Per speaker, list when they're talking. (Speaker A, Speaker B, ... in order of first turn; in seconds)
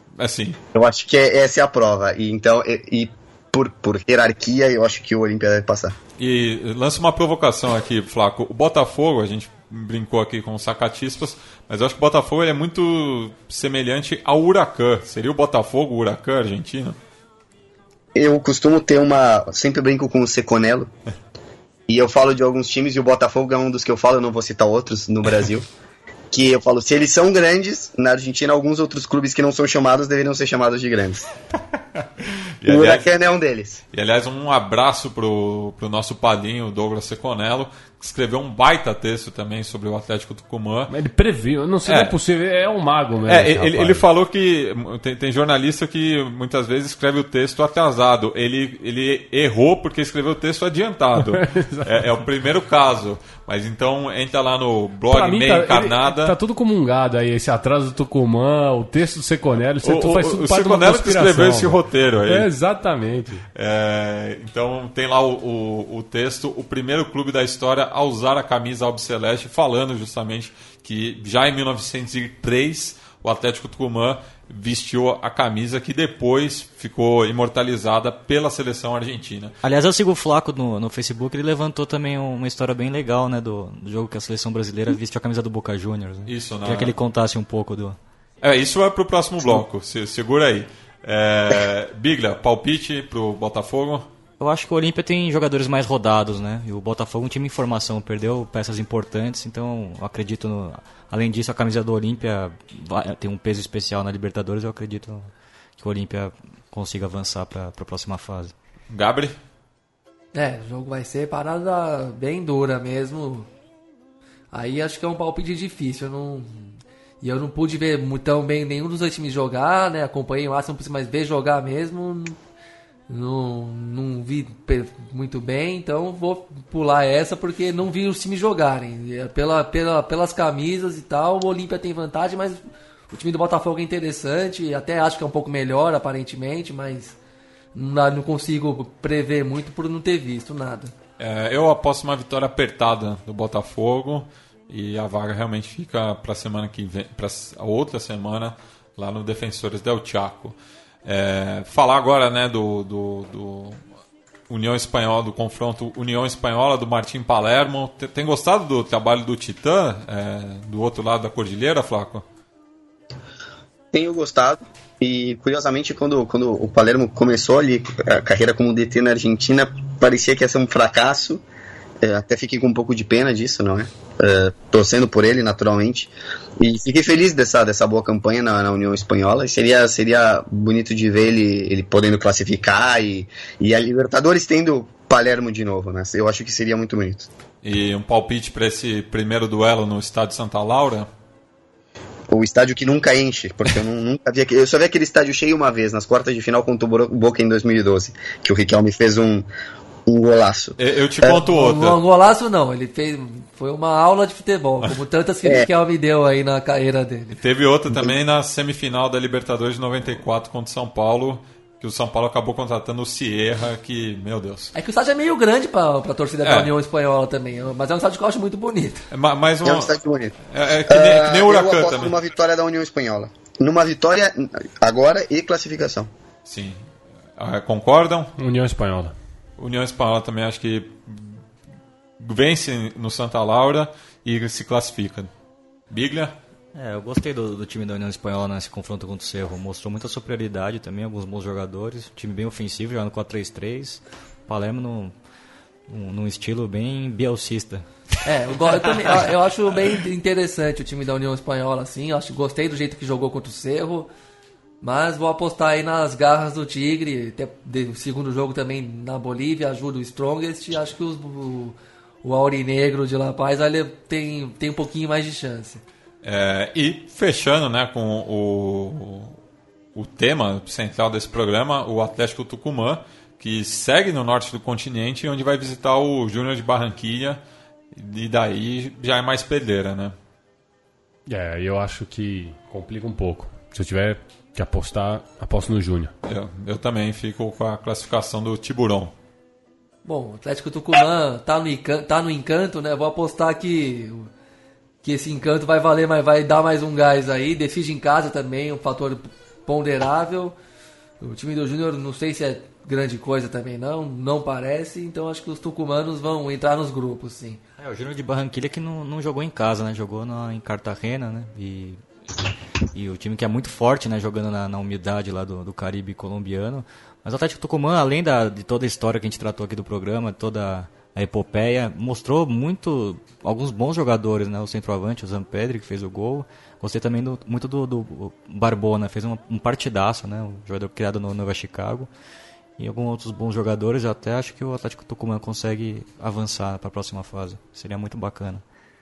Speaker A: 0.2-0.6, 6.2-17.0, 32.6-33.1, 33.9-40.9, 41.8-42.1, 43.2-56.4, 59.8-62.5, 63.5-79.6, 86.2-87.0, 88.4-94.1, 108.9-109.3, 141.2-153.8, 154.5-162.2, 187.6-191.1, 200.8-202.0, 207.3-214.7, 216.4-216.7, 219.1-219.9, 220.5-222.1, 226.4-226.8, 227.4-228.3, 229.6-231.4, 232.2-235.3, 235.9-236.3, 266.2-269.4, 269.9-277.4, 277.9-280.1, 286.2-289.1
Speaker B: 0.7-5.9, 18.1-20.9, 21.9-25.6, 26.3-31.3, 32.6-33.8, 163.9-171.4, 172.0-187.3, 192.3-199.5, 200.1-201.4, 207.9-208.1, 219.6-220.3, 220.9-226.1
Speaker C: 40.9-44.0, 51.2-52.1, 55.1-63.4, 228.4-229.1, 281.2-286.1
Speaker D: 79.6-88.0, 94.4-108.5, 236.7-245.1, 245.9-247.9, 307.8-312.0, 312.9-332.1, 332.8-338.6
Speaker E: 110.3-113.5, 114.5-122.4, 123.1-137.2, 137.7-140.9, 201.4-207.3, 214.7-219.0, 248.2-254.1, 254.8-265.8, 290.0-294.3, 295.0-300.5, 301.2-307.6